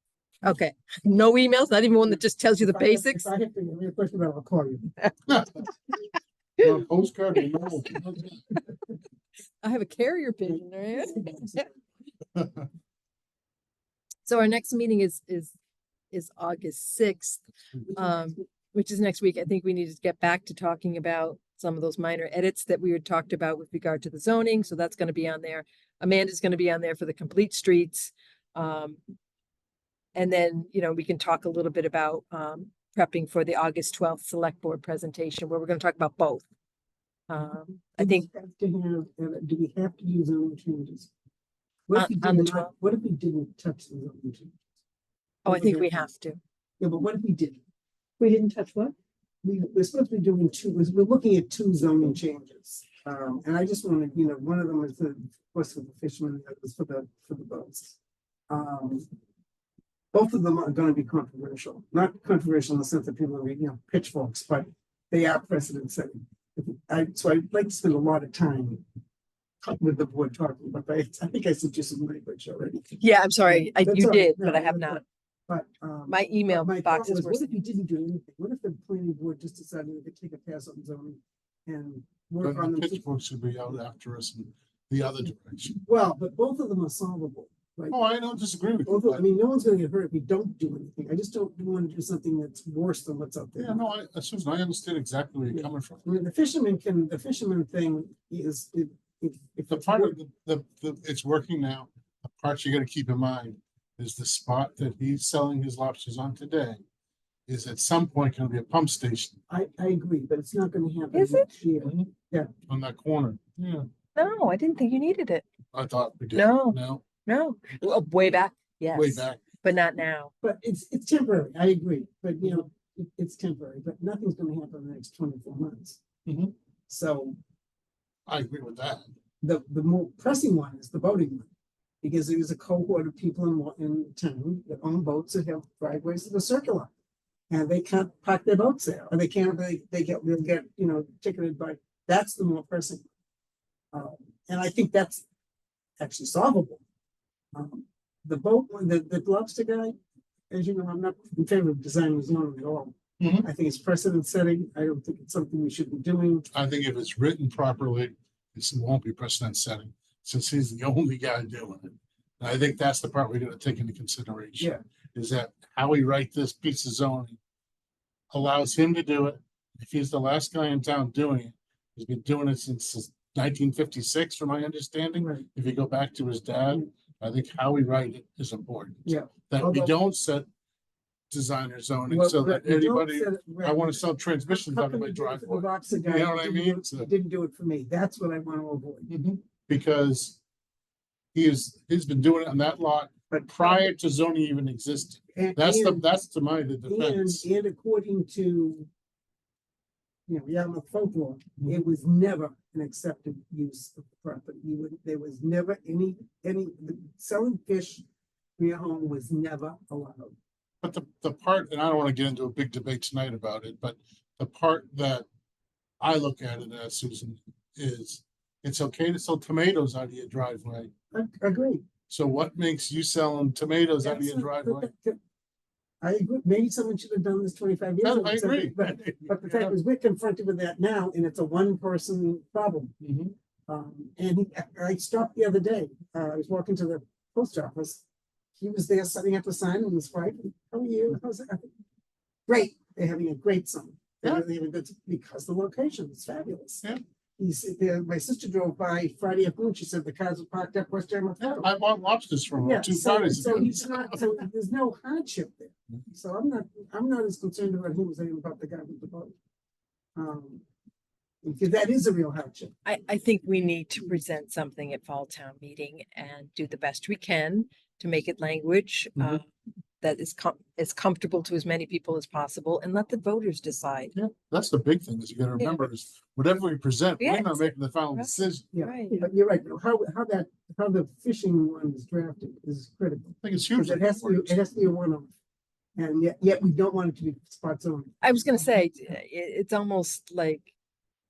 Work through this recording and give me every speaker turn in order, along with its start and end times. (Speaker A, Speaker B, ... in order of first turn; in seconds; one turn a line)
Speaker A: 0.4-3.3
Speaker B: 2.6-5.0
Speaker C: 5.3-5.6
Speaker C: 6.6-8.4
Speaker A: 9.6-11.7
Speaker B: 11.2-11.6
Speaker A: 14.2-15.6
Speaker A: 16.1-17.4
Speaker A: 17.9-29.0
Speaker A: 30.1-36.5
Speaker A: 37.3-38.3
Speaker B: 38.0-41.1
Speaker B: 41.9-44.5
Speaker A: 42.0-42.7
Speaker B: 45.5-46.1
Speaker A: 45.5-46.4
Speaker B: 46.8-47.6
Speaker A: 48.2-48.9
Speaker B: 49.4-58.0
Speaker B: 58.5-59.0
Speaker B: 60.1-68.8
Speaker B: 69.6-83.0
Speaker A: 73.0-75.0
Speaker A: 76.1-77.7
Speaker C: 82.4-85.8
Speaker B: 85.8-88.0
Speaker C: 87.9-89.2
Speaker B: 88.8-93.8
Speaker C: 93.6-96.0
Speaker B: 95.5-100.2
Speaker C: 99.7-106.8
Speaker C: 107.5-109.3
Speaker B: 109.5-112.5
Speaker A: 111.1-111.5
Speaker C: 111.8-112.1
Speaker C: 112.7-113.9
Speaker A: 114.2-115.5
Speaker C: 115.7-117.0
Speaker A: 116.3-120.3
Speaker C: 118.9-119.4
Speaker B: 120.4-126.0
Speaker C: 126.3-126.5
Speaker B: 126.9-127.4
Speaker C: 128.3-129.1
Speaker B: 129.4-131.5
Speaker B: 132.0-136.9
Speaker B: 137.5-143.1
Speaker B: 143.9-145.2
Speaker B: 146.0-146.8
Speaker B: 147.5-149.9
Speaker B: 150.5-156.5
Speaker C: 153.2-153.5
Speaker C: 156.5-167.4
Speaker C: 168.3-180.5
Speaker B: 175.2-175.4
Speaker B: 179.1-179.9
Speaker C: 181.3-187.1
Speaker B: 182.1-189.1
Speaker C: 189.1-190.4
Speaker C: 191.3-197.4
Speaker B: 193.3-193.9
Speaker B: 195.3-196.1
Speaker B: 196.8-198.9
Speaker B: 200.3-208.1
Speaker B: 208.6-210.3
Speaker C: 210.8-215.3
Speaker C: 216.0-220.9
Speaker B: 221.1-221.9
Speaker C: 222.1-224.9
Speaker B: 224.0-225.2
Speaker B: 226.0-232.9
Speaker C: 228.0-229.8
Speaker C: 233.0-233.3
Speaker B: 233.7-238.0
Speaker B: 238.6-241.7
Speaker B: 242.5-246.8
Speaker B: 247.4-251.7
Speaker C: 251.4-254.2
Speaker B: 252.6-259.4
Speaker B: 260.2-260.6
Speaker B: 261.4-262.7
Speaker A: 262.9-269.4
Speaker A: 270.0-274.1
Speaker C: 274.1-278.7
Speaker A: 275.6-275.9
Speaker A: 277.2-279.2
Speaker B: 278.7-285.3
Speaker C: 283.4-284.6
Speaker B: 286.0-288.2
Speaker A: 288.2-290.7